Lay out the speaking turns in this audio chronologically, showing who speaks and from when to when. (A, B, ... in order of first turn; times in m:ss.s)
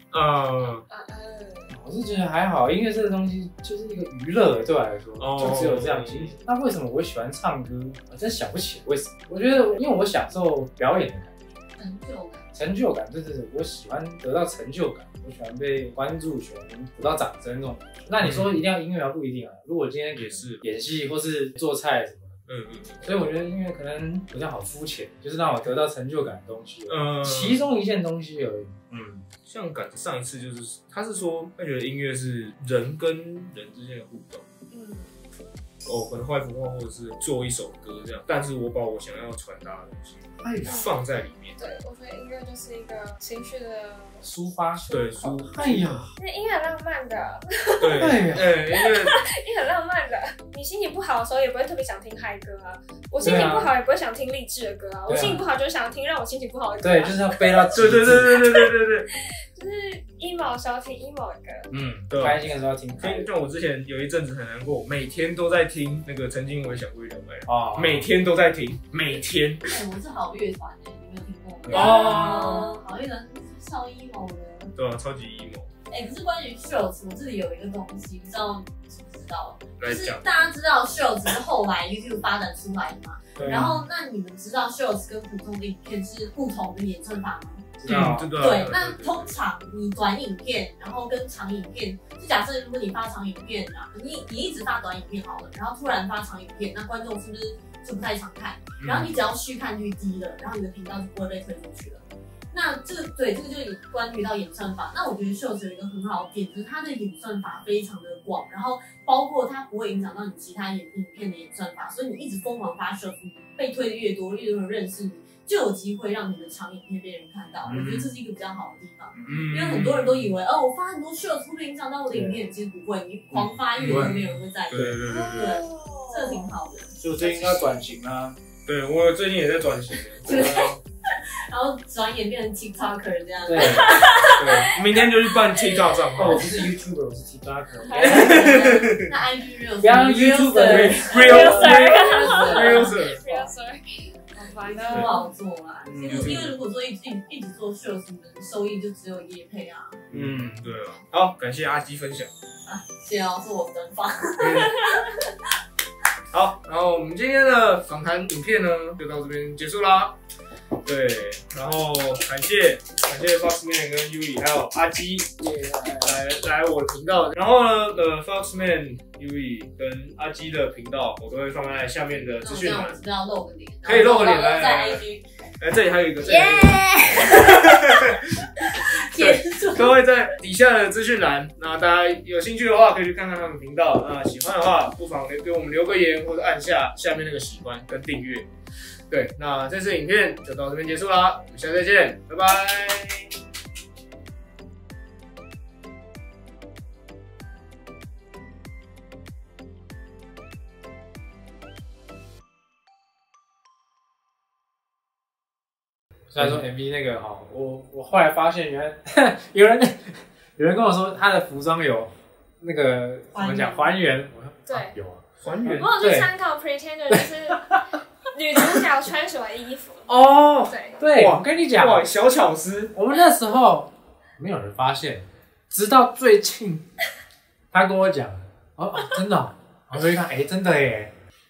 0:00.1-0:00.8 A
0:00.9-0:01.7 B
0:01.7-0:11.6 C
0:05.2-0:06.3 A
0:11.8-0:12.4 D
0:12.5-0:22.4 C
0:18.2-0:18.6 A
0:20.1-0:20.6 A
0:22.5-0:23.2 A
0:23.0-0:29.3 C
0:26.9-0:27.6 A
0:29.4-0:34.4 A
0:34.7-0:35.1 B
0:35.8-0:41.6 A
0:40.4-0:40.8 C
0:40.6-0:40.9 B
0:41.6-0:48.2 B
0:44.2-0:46.1 C
0:44.9-0:46.1 A
0:47.8-0:49.2 A
0:48.0-0:48.5 C
0:48.7-1:01.7 B
0:53.2-0:53.7 C
0:55.1-0:55.4 C
0:56.8-0:58.4 C
0:57.7-0:59.1 A
1:01.7-1:03.3 C
1:02.1-1:02.5 A
1:03.0-1:09.8 A
1:07.4-1:08.1 C
1:09.7-1:14.7 D
1:11.6-1:12.4 C
1:11.6-1:12.6 A
1:14.7-1:15.7 A
1:15.9-1:27.7 D
1:19.8-1:20.4 A
1:23.4-1:23.8 C
1:27.8-1:28.3 C
1:27.8-1:29.4 A
1:28.3-2:07.8 D
1:38.8-1:39.2 A
1:57.7-1:58.1 C
1:59.1-1:59.4 C
1:59.2-2:00.3 A
2:02.1-2:02.4 C
2:03.3-2:05.6 A
2:03.8-2:04.2 C
2:05.0-2:06.4 B
2:07.0-2:08.4 C
2:08.6-2:10.7 A
2:10.2-2:14.2 D
2:10.4-2:10.7 C
2:13.4-2:13.9 C
2:13.5-2:16.5 A
2:13.6-2:14.7 B
2:16.1-2:18.7 C
2:17.8-2:18.6 B
2:18.0-2:19.0 A
2:18.0-2:23.0 D
2:19.8-2:21.9 C
2:20.7-2:23.5 A
2:21.1-2:25.2 B
2:24.6-2:30.0 D
2:24.8-2:25.2 A
2:25.9-2:26.3 C
2:25.9-2:26.6 A
2:30.1-2:32.3 A
2:30.1-2:30.6 C
2:32.6-2:35.5 D
2:34.4-2:34.8 A
2:36.3-2:40.2 A
2:40.8-2:53.0 A
2:52.4-2:55.2 D
2:53.8-2:58.5 A
2:56.2-3:00.0 D
2:59.1-3:08.5 A
3:09.1-3:13.3 A
3:26.3-3:36.3 C
3:33.3-3:33.9 D
3:34.7-3:35.0 B
3:35.4-3:35.9 A
3:35.7-3:40.1 B
3:37.1-3:37.8 C
3:40.1-3:42.1 C
3:40.7-3:41.0 B
3:41.1-3:42.9 A
3:42.9-3:46.8 C
3:47.7-3:51.1 C